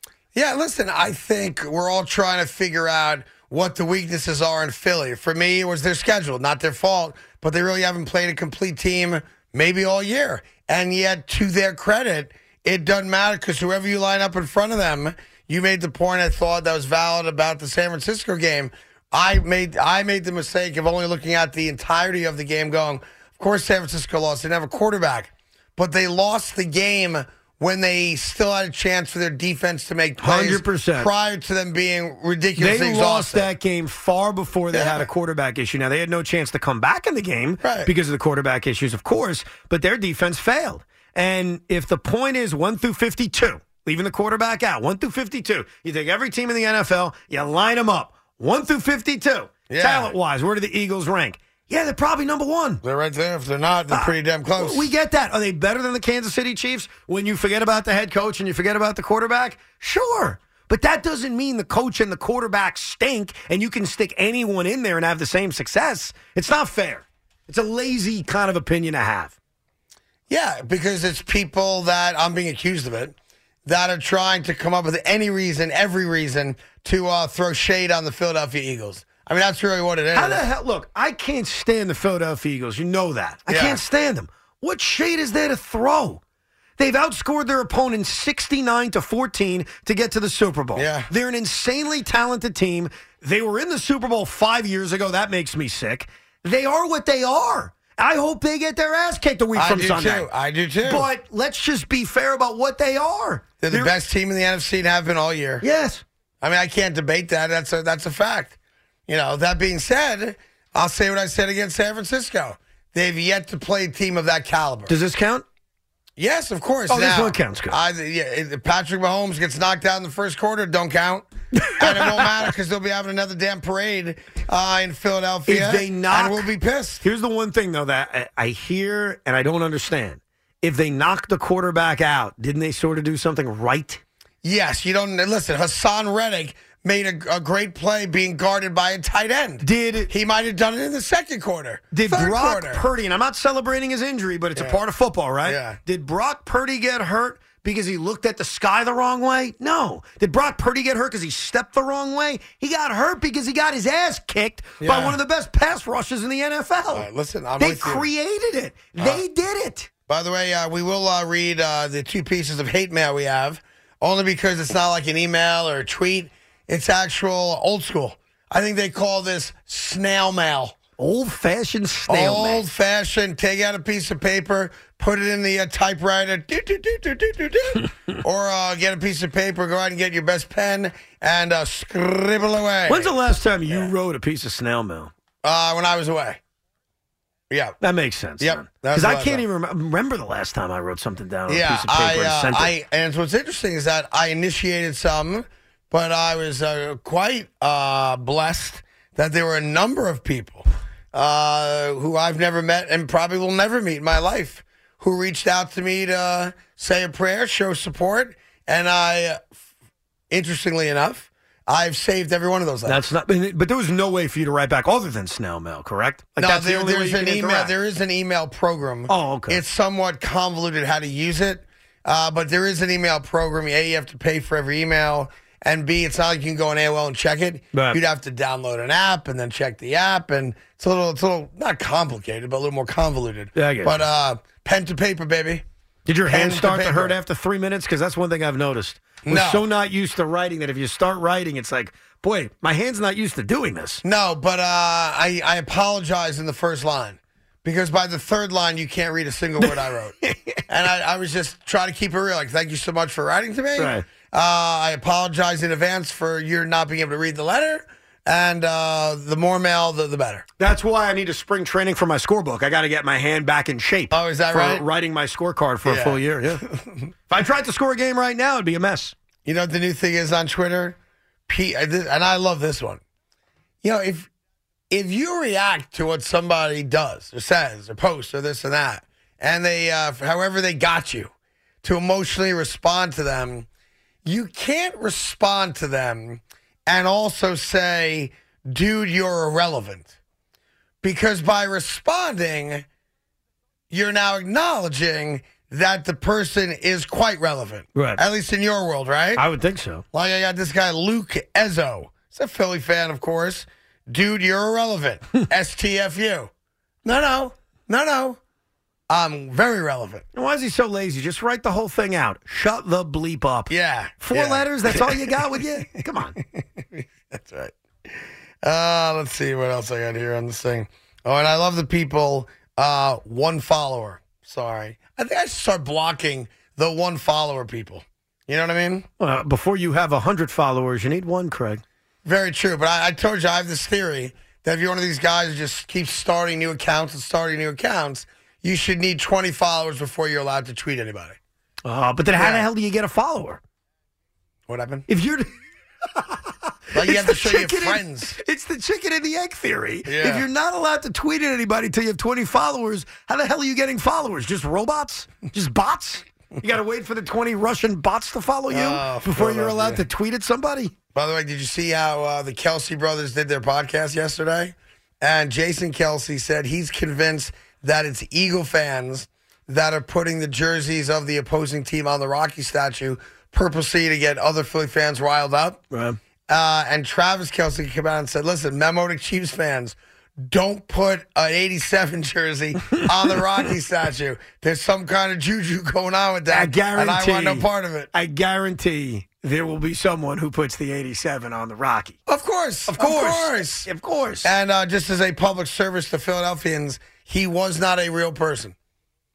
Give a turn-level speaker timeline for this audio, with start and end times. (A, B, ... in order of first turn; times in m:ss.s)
0:00.3-0:33.5 A
0:30.2-0:31.1 B
0:32.6-0:52.8 B
0:34.7-0:35.1 A
0:37.6-0:37.9 A
0:49.7-0:50.1 A
0:52.8-0:54.9 A
0:53.9-1:09.4 B
1:10.3-1:13.1 A
1:13.6-1:20.4 A
1:20.1-1:26.2 B
1:23.5-1:23.8 A
1:26.8-1:40.3 B
1:30.7-1:31.1 A
1:39.5-1:41.1 A
1:40.8-1:43.9 B
1:43.6-1:45.6 A
1:45.6-1:46.0 B
1:46.4-1:48.6 A
1:49.1-1:55.0 A
1:54.9-1:55.4 B
1:56.2-2:01.3 A
1:56.9-1:57.8 B
2:01.5-2:02.5 B
2:01.8-2:07.0 A
2:05.5-2:06.5 B
2:07.0-2:14.0 B
2:14.4-2:22.8 A
2:19.6-2:20.1 B
2:21.9-2:37.1 B
2:25.4-2:25.8 A
2:34.8-2:35.2 A
2:36.9-2:38.1 A
2:37.6-2:39.9 B
2:39.0-2:39.2 A
2:40.1-2:50.8 A
2:51.0-2:52.6 B
2:52.1-3:03.1 A
3:02.9-3:05.1 B
3:05.4-3:06.4 A
3:07.5-3:07.8 A
3:07.8-3:12.7 B
3:08.4-3:09.4 A
3:11.5-3:29.4 A
3:30.3-3:33.1 A
3:32.8-3:37.7 B
3:36.4-3:55.6 A
3:39.1-3:39.6 B
3:47.7-3:48.0 B
3:53.5-3:54.0 B
3:56.1-4:04.0 B
3:56.3-3:57.2 A
3:59.2-3:59.6 A
4:04.0-4:10.2 A
4:10.2-4:10.6 B
4:10.7-4:20.4 A
4:13.8-4:14.0 B
4:20.6-4:26.6 B
4:24.1-4:24.8 A
4:25.8-4:27.1 A
4:27.3-4:29.1 B
4:29.4-4:31.0 A
4:31.5-4:33.0 A
4:33.8-4:34.3 A
4:34.9-4:41.3 A
4:41.8-4:43.6 A
4:44.2-4:50.1 A
4:51.0-4:52.8 A
4:53.9-4:59.4 A
4:57.9-4:58.2 B
4:59.4-5:00.0 B
5:00.1-5:06.5 A
5:07.0-5:08.4 A
5:09.1-5:10.2 A
5:10.3-5:16.4 B
5:13.7-5:15.6 A
5:16.4-5:29.0 A
5:29.2-5:31.8 B
5:32.2-5:41.4 A
5:41.8-5:43.6 B
5:42.4-5:42.7 A
5:44.7-5:45.0 A
5:45.1-5:45.5 B
5:46.2-6:00.9 B
5:46.9-5:48.4 A
5:50.0-5:50.4 A
5:58.7-6:00.0 A
6:01.1-6:15.8 A
6:15.9-6:16.2 B
6:16.5-6:28.1 A
6:26.5-6:32.2 B
6:32.3-6:33.9 A
6:32.9-6:34.5 B
6:34.4-6:38.7 A